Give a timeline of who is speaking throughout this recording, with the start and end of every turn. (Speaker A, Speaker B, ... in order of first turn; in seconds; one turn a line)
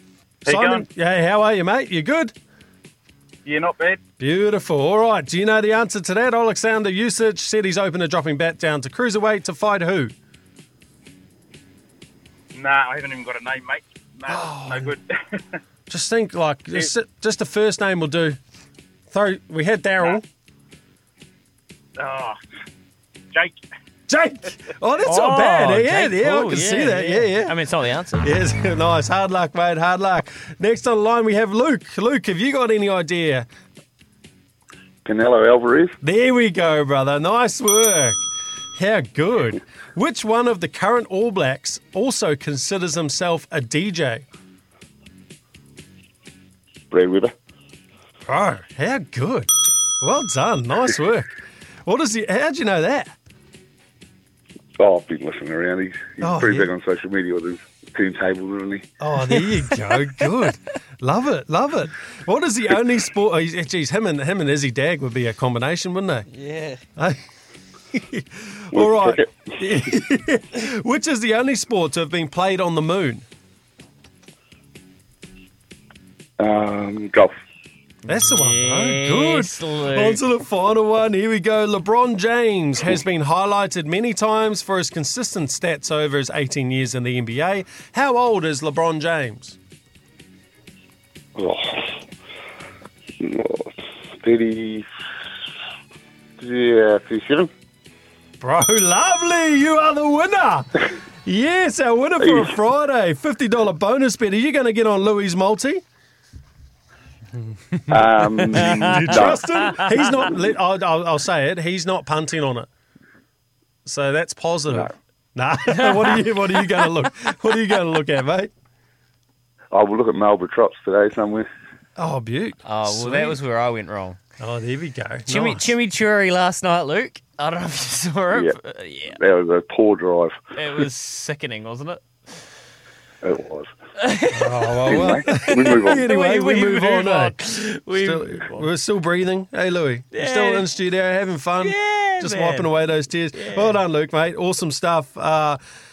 Speaker A: 0.5-2.3
Speaker B: 0.5-0.8
Speaker B: 3.4-4.0
Speaker A: 4.2-10.1
Speaker B: 12.5-15.0
Speaker A: 14.3-14.9
Speaker A: 15.9-18.4
Speaker A: 19.1-20.2
Speaker B: 22.0-22.4
Speaker B: 23.3-23.6
Speaker A: 24.1-27.5
Speaker C: 25.0-28.2
Speaker A: 28.2-33.5
Speaker D: 35.0-36.0
Speaker A: 36.0-38.2
Speaker A: 38.8-44.2
Speaker D: 46.9-47.3
Speaker A: 48.3-51.3
Speaker A: 51.9-53.1
Speaker D: 54.8-58.9
Speaker A: 56.2-56.7
Speaker A: 59.0-66.2
Speaker C: 66.3-66.8
Speaker A: 67.9-73.2
Speaker D: 68.7-69.7
Speaker D: 76.4-77.3
Speaker A: 78.1-89.6
Speaker C: 78.1-80.2
Speaker D: 91.4-91.9
Speaker D: 93.2-94.8
Speaker D: 96.4-97.5
Speaker A: 98.4-105.8
Speaker D: 102.2-102.5
Speaker D: 107.9-110.5
Speaker A: 108.5-112.7
Speaker C: 108.5-109.3
Speaker A: 113.8-118.5
Speaker C: 116.0-116.2
Speaker D: 119.7-121.5
Speaker A: 122.0-123.4
Speaker C: 122.6-124.2
Speaker A: 124.4-125.7
Speaker C: 125.3-129.2
Speaker D: 129.1-130.3
Speaker C: 130.6-132.0
Speaker D: 133.2-133.7
Speaker C: 134.0-138.7
Speaker A: 134.3-137.3
Speaker D: 134.8-136.1
Speaker A: 137.9-145.6
Speaker C: 140.1-140.7
Speaker C: 141.6-142.7
Speaker C: 143.3-143.8